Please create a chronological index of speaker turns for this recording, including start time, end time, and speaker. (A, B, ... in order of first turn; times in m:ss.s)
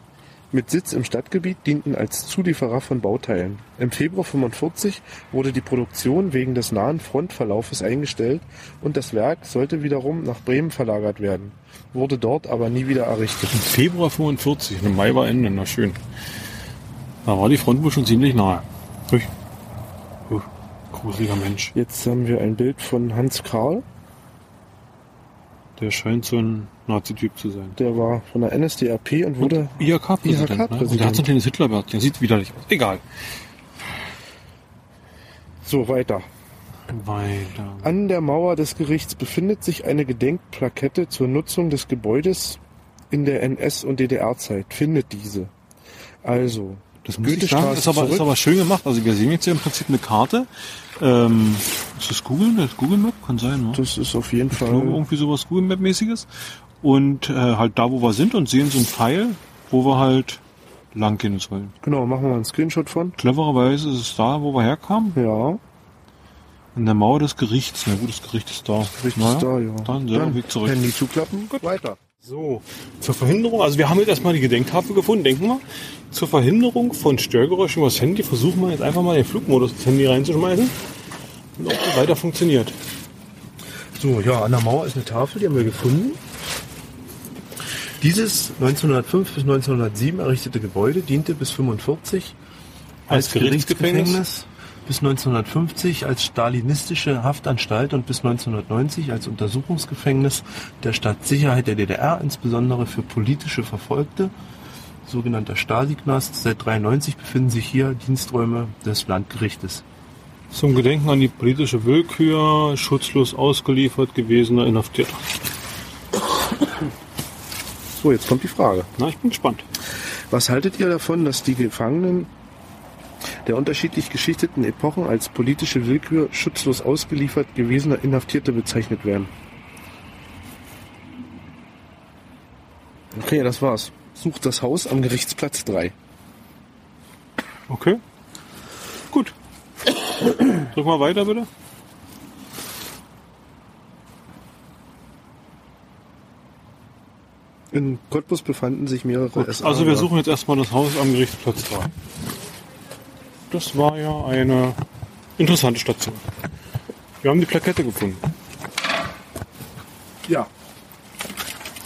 0:00.5-0:13.6 A
0:13.5-0:16.0 B
0:17.2-0:19.3 B
0:20.3-0:21.7 B
0:21.7-0:23.8 A
0:25.8-0:27.8 B
0:27.8-0:31.3 A
0:29.4-0:33.0 B
0:35.6-0:36.3 A
0:36.9-0:37.9 B
0:37.8-0:42.6 A
0:43.1-0:45.5 A
0:46.2-0:48.3 A
0:47.0-0:53.8 B
0:53.7-0:55.0 A
0:54.5-0:56.3 B
0:56.8-1:00.4 B
1:00.9-1:01.7 B
1:01.8-1:03.2 A
1:03.2-1:05.2 B
1:05.1-1:05.6 A
1:06.7-1:11.0 B
1:09.0-1:12.0 A
1:12.2-1:20.8 B
1:21.6-1:22.8 B
1:24.0-1:26.2 A
1:28.0-1:32.4 A
1:33.1-1:34.2 B
1:33.1-1:44.3 A
1:45.0-1:49.8 A
1:50.5-1:55.3 B
1:57.9-1:58.9 A
1:59.0-1:59.6 B
2:00.3-2:02.3 A
2:03.4-2:09.3 A
2:13.1-2:15.9 A
2:17.7-2:18.0 B
2:20.4-2:21.5 B
2:27.7-2:30.1 A
2:29.4-2:31.9 B
2:33.5-2:34.8 B
2:35.4-2:36.2 B
2:37.2-2:38.2 B
2:40.2-2:40.5 A